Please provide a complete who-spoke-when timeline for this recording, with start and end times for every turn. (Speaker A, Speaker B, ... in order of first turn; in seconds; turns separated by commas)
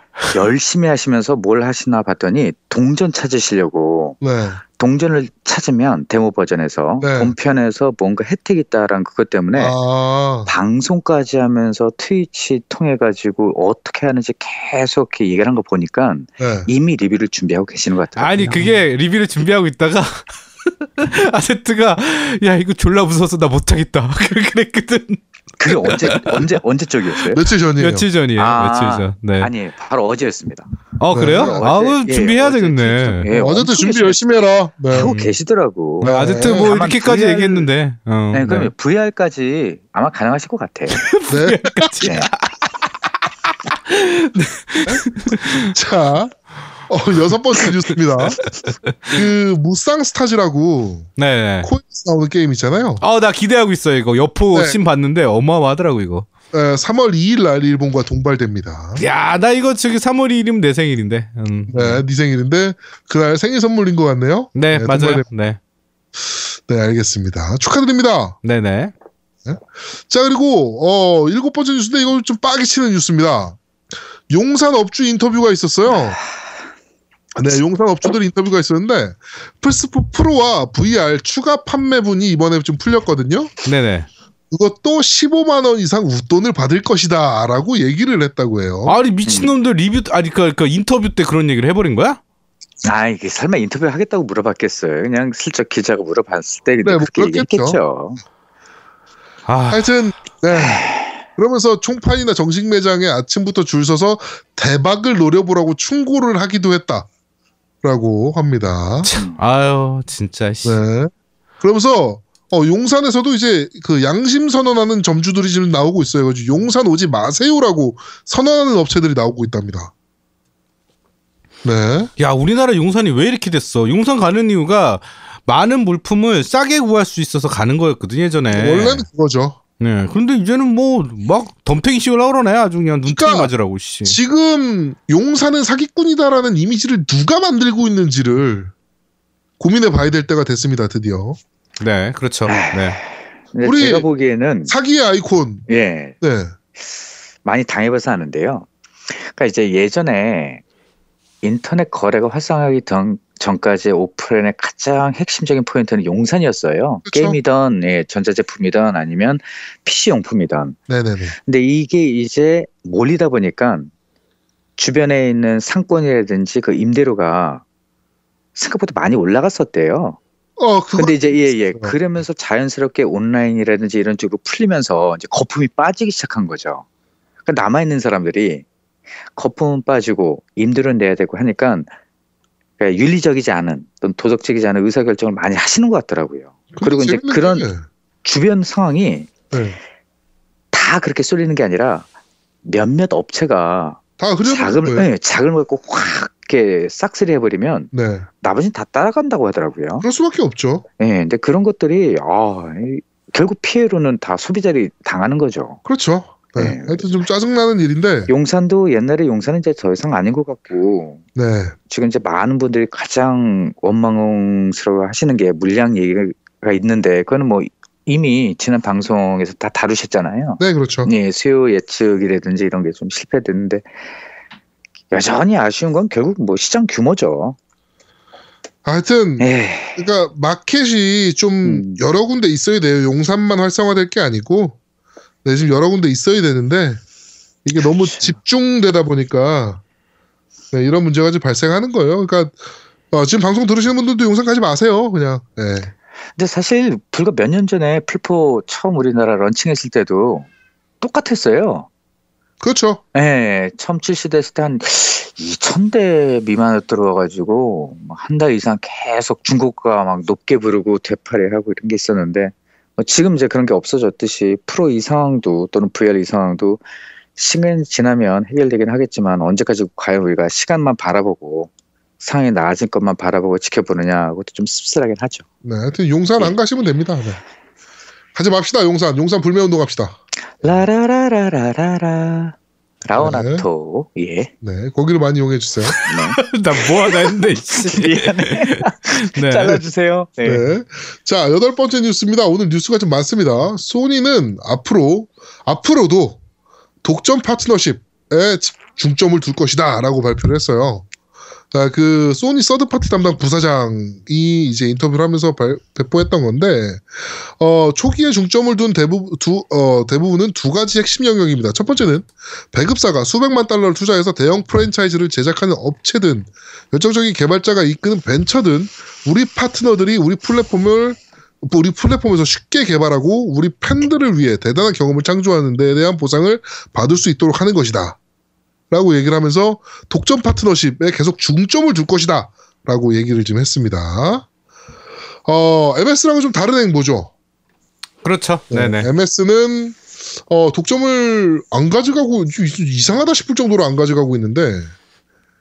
Speaker A: 0.3-4.2, Speaker B: 4.2-4.6, Speaker A: 4.8-9.8, Speaker B: 7.0-7.3, Speaker B: 9.6-10.5, Speaker A: 10.4-18.5, Speaker B: 16.4-16.7, Speaker C: 18.2-20.3, Speaker B: 18.4-18.8, Speaker C: 21.0-26.6, Speaker A: 25.6-27.4, Speaker B: 27.3-28.1, Speaker C: 27.8-29.5, Speaker A: 28.4-30.7, Speaker C: 31.0-33.3, Speaker B: 31.1-31.6, Speaker A: 31.3-34.2, Speaker B: 33.3-35.1, Speaker A: 34.9-37.7, Speaker C: 35.0-35.4, Speaker C: 36.0-38.7, Speaker B: 36.0-36.8, Speaker A: 38.3-41.0, Speaker C: 40.9-42.7, Speaker B: 41.3-42.0, Speaker A: 42.0-42.3, Speaker C: 43.7-45.7, Speaker B: 44.8-48.4, Speaker C: 48.4-49.2, Speaker B: 49.1-51.1, Speaker C: 51.2-51.7, Speaker B: 51.6-53.0, Speaker C: 53.0-56.3, Speaker B: 56.5-59.0, Speaker C: 59.0-62.0, Speaker B: 61.7-65.2, Speaker C: 64.5-65.6, Speaker B: 66.2-68.4, Speaker C: 68.4-68.9, Speaker B: 69.5-73.6, Speaker B: 74.3-76.2, Speaker B: 77.3-83.5, Speaker C: 83.7-84.1, Speaker B: 84.5-89.0, Speaker C: 88.9-92.2, Speaker A: 89.3-89.5, Speaker A: 92.8-98.2, Speaker B: 96.8-97.8, Speaker C: 99.5-99.9, Speaker B: 99.7-107.1, Speaker A: 100.5-101.2, Speaker B: 107.8-109.1, Speaker C: 109.1-110.8, Speaker A: 109.1-109.4, Speaker B: 110.7-119.9, Speaker B: 121.6-122.1, Speaker C: 122.2-129.1, Speaker B: 128.5-129.6, Speaker C: 129.8-134.2, Speaker B: 133.1-133.5, Speaker B: 134.1-138.7, Speaker B: 139.6-141.4, Speaker C: 141.8-143.0, Speaker A: 142.5-144.8, Speaker B: 143.6-144.1, Speaker B: 144.7-145.7, Speaker A: 145.7-146.2, Speaker B: 146.2-146.5, Speaker A: 147.4-150.6, Speaker A: 151.4-160.8, Speaker B: 157.1-157.4, Speaker B: 160.9-161.4, Speaker A: 161.5-163.9, Speaker A: 164.8-167.6, Speaker A: 168.6-170.2, Speaker B: 170.6-172.0, Speaker A: 170.9-176.8, Speaker A: 177.5-178.7, Speaker A: 179.4-181.9, Speaker A: 182.8-187.7, Speaker B: 186.7-187.8, Speaker A: 188.2-189.3, Speaker B: 189.5-189.8, Speaker A: 190.7-192.1, Speaker A: 192.6-200.1, Speaker B: 194.2-195.1, Speaker B: 197.9-198.3, Speaker B: 200.0-200.9, Speaker A: 201.0-205.8, Speaker B: 205.8-208.3, Speaker A: 206.6-207.1, Speaker A: 208.3-211.2, Speaker B: 211.3-211.8, Speaker A: 211.9-223.9, Speaker B: 220.6-221.1, Speaker A: 225.1-227.6, Speaker B: 228.8-234.8, Speaker A: 229.4-230.1, Speaker A: 231.6-232.0, Speaker B: 235.4-237.0, Speaker B: 237.7-239.8, Speaker A: 238.0-238.3, Speaker B: 240.7-242.6, Speaker B: 243.1-245.9, Speaker A: 246.4-250.5, Speaker A: 251.0-251.9, Speaker B: 252.6-253.0, Speaker A: 253.1-266.8, Speaker A: 267.4-275.4, Speaker B: 275.6-277.4, Speaker B: 278.4-280.8, Speaker A: 280.6-284.5, Speaker B: 283.2-283.6, Speaker B: 284.6-286.0, Speaker C: 285.9-289.8, Speaker A: 286.1-286.4, Speaker A: 287.0-290.7, Speaker B: 290.4-296.4, Speaker B: 297.0-301.1, Speaker B: 301.7-328.2, Speaker B: 328.9-334.5, Speaker B: 335.5-337.3, Speaker C: 338.2-339.1, Speaker B: 338.7-344.9